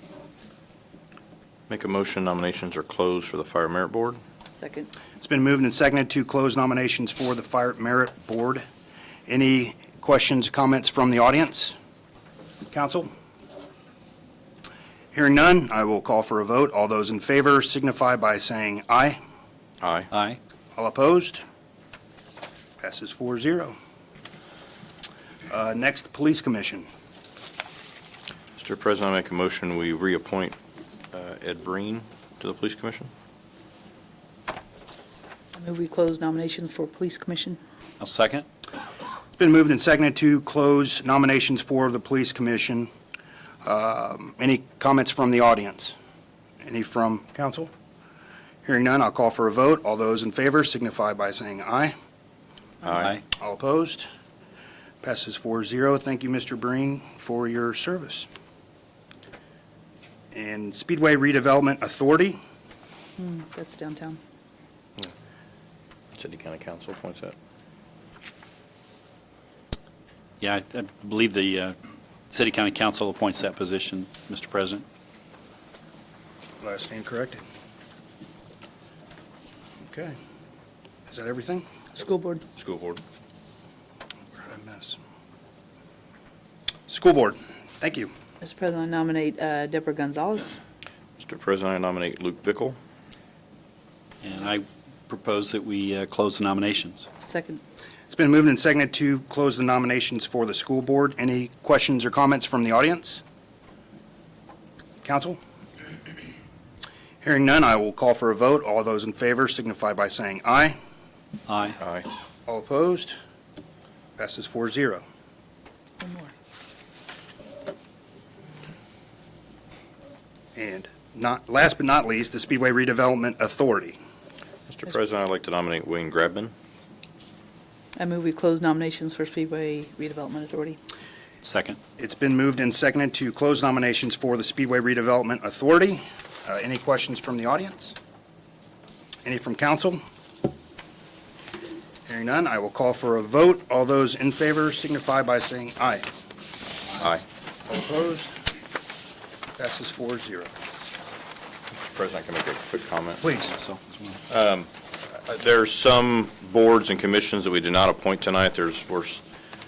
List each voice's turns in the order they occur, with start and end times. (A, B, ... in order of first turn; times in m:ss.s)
0:01.7-0:04.2 A
0:04.6-0:04.9 B
0:05.2-0:08.6 C
0:09.3-0:11.8 C
0:12.7-0:13.1 C
0:15.1-0:19.2 C
0:19.8-0:20.1 A
0:20.1-0:20.4 D
0:20.8-0:21.4 C
0:22.8-0:23.8 C
0:25.5-0:26.9 C
0:28.6-0:30.6 A
0:31.1-0:33.1 A
0:35.6-0:37.6 B
0:38.0-0:38.4 D
0:39.4-0:42.9 C
0:43.6-0:45.9 C
0:46.6-0:47.7 C
0:48.6-0:51.9 C
0:52.8-0:53.2 A
0:53.3-0:54.1 C
0:55.0-0:58.3 C
1:00.3-1:02.4 C
1:03.2-1:04.2 B
1:06.2-1:07.3 A
1:10.4-1:11.7 D
1:12.3-1:14.8 D
1:16.6-1:17.4 C
1:19.8-1:20.2 C
1:21.1-1:21.7 C
1:22.0-1:22.4 B
1:22.6-1:23.0 A
1:24.4-1:25.0 C
1:26.9-1:28.1 C
1:28.4-1:30.6 B
1:31.2-1:32.8 A
1:34.2-1:37.1 D
1:37.3-1:37.6 B
1:38.1-1:43.2 C
1:45.0-1:45.4 C
1:47.2-1:50.8 C
1:51.5-1:51.8 D
1:51.8-1:52.1 A
1:52.5-1:53.2 C
1:54.2-1:55.0 C
1:56.0-1:56.3 B
2:00.5-2:04.0 C
2:04.7-2:06.5 A
2:08.0-2:10.8 B
2:11.4-2:11.8 D
2:12.0-2:18.0 C
2:19.2-2:20.0 C
2:22.1-2:26.1 C
2:27.7-2:28.4 C
2:29.6-2:30.5 C
2:31.8-2:33.3 A
2:33.2-2:33.6 C
2:33.6-2:34.2 D
2:34.3-2:39.2 A